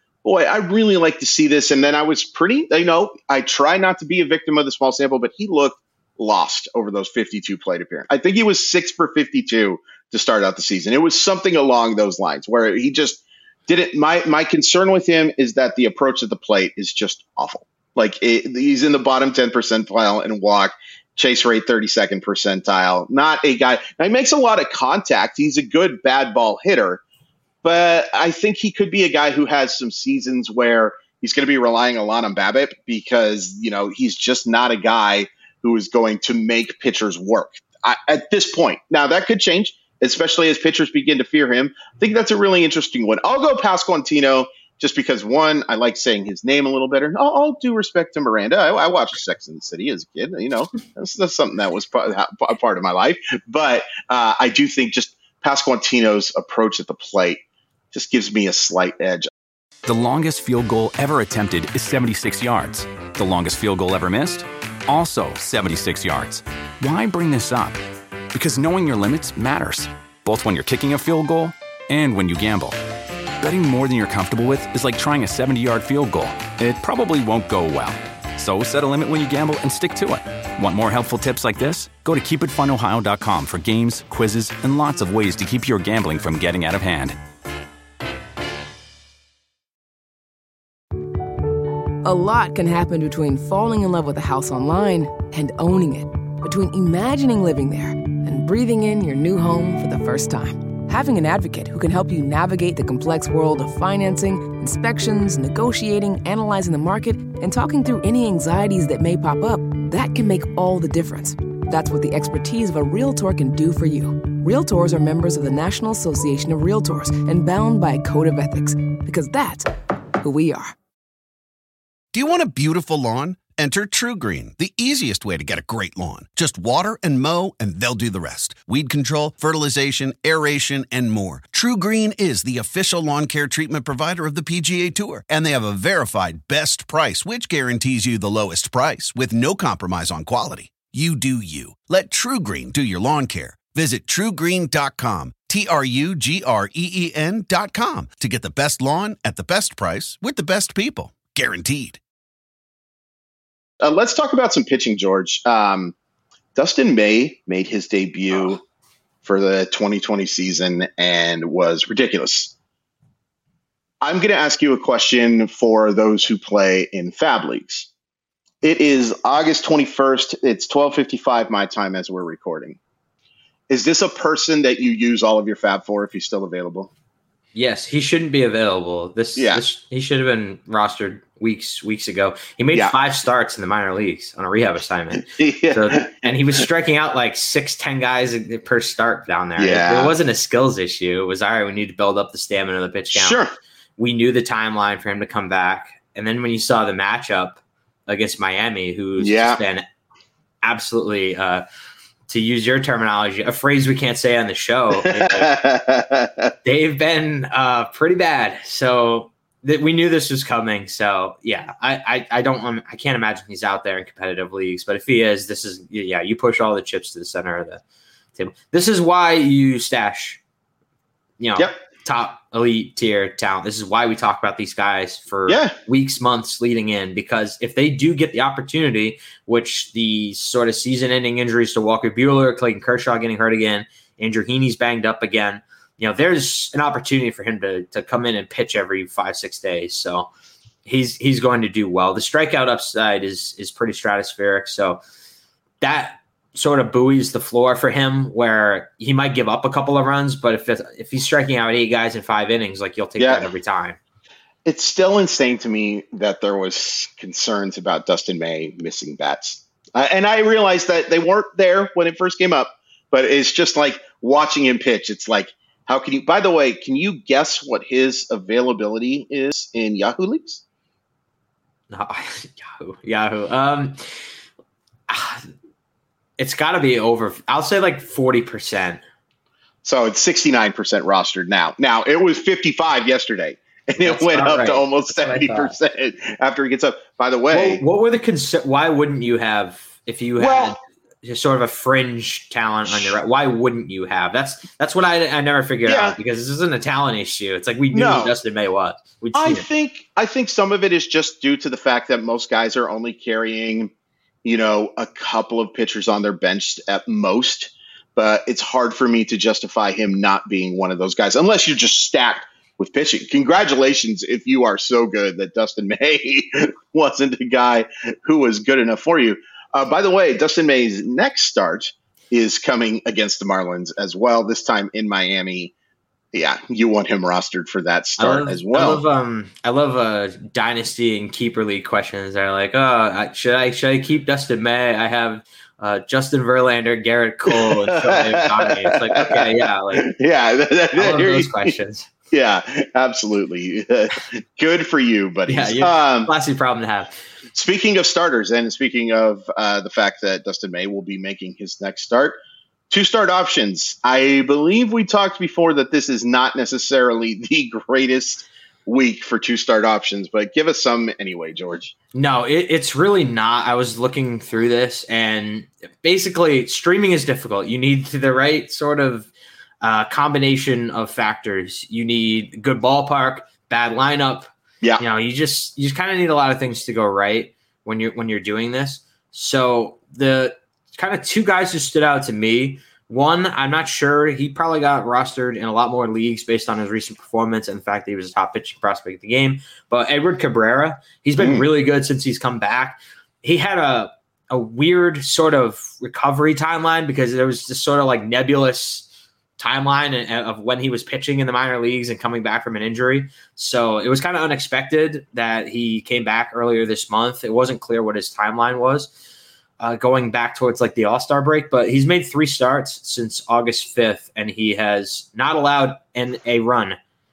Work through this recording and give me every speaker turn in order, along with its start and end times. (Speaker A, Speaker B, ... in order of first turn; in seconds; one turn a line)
Speaker A: 0.2-27.0
Speaker A: 27.6-59.3
Speaker B: 59.9-67.8
Speaker B: 68.3-72.8
Speaker B: 73.4-87.2
Speaker C: 92.0-119.7
Speaker C: 120.2-120.8
Speaker D: 122.1-152.0
Speaker A: 153.8-155.9
Speaker A: 156.6-158.6
Speaker A: 159.2-162.5
Speaker A: 164.0-167.9
Speaker A: 168.6-172.8
Speaker A: 173.7-176.9
Speaker E: 177.6-193.4
Speaker A: 179.4-179.6
Speaker A: 185.1-186.4
Speaker A: 189.6-190.2
Speaker A: 193.1-193.5
Speaker E: 194.0-199.8
Speaker A: 199.2-199.6
Speaker E: 200.6-201.6
Speaker E: 202.3-205.5
Speaker A: 205.1-206.5
Speaker E: 206.7-217.8
Speaker E: 218.4-220.4
Speaker E: 221.4-240.3
Speaker A: 225.5-225.8
Speaker E: 240.8-245.0
Speaker E: 245.8-254.0
Speaker A: 253.2-253.5
Speaker A: 254.7-270.6
Speaker E: 271.9-274.0
Speaker E: 275.1-275.4
Speaker E: 276.4-279.0
Speaker A: 279.8-287.8
Speaker E: 284.0-285.8
Speaker E: 287.5-299.7
Speaker A: 290.4-290.8
Speaker A: 295.9-296.2
Speaker A: 297.9-298.3
Speaker A: 299.4-303.9
Speaker A: 304.4-325.7
Speaker A: 326.3-329.0
Speaker E: 328.2-340.1
Speaker A: 337.5-341.7
Speaker E: 341.0-342.1
Speaker A: 342.3-346.3
Speaker E: 345.5-347.2
Speaker A: 347.5-352.4
Speaker A: 352.9-361.9
Speaker E: 362.1-369.3
Speaker E: 369.8-399.1
Speaker A: 391.4-391.7
Speaker E: 399.6-409.1
Speaker E: 409.8-417.0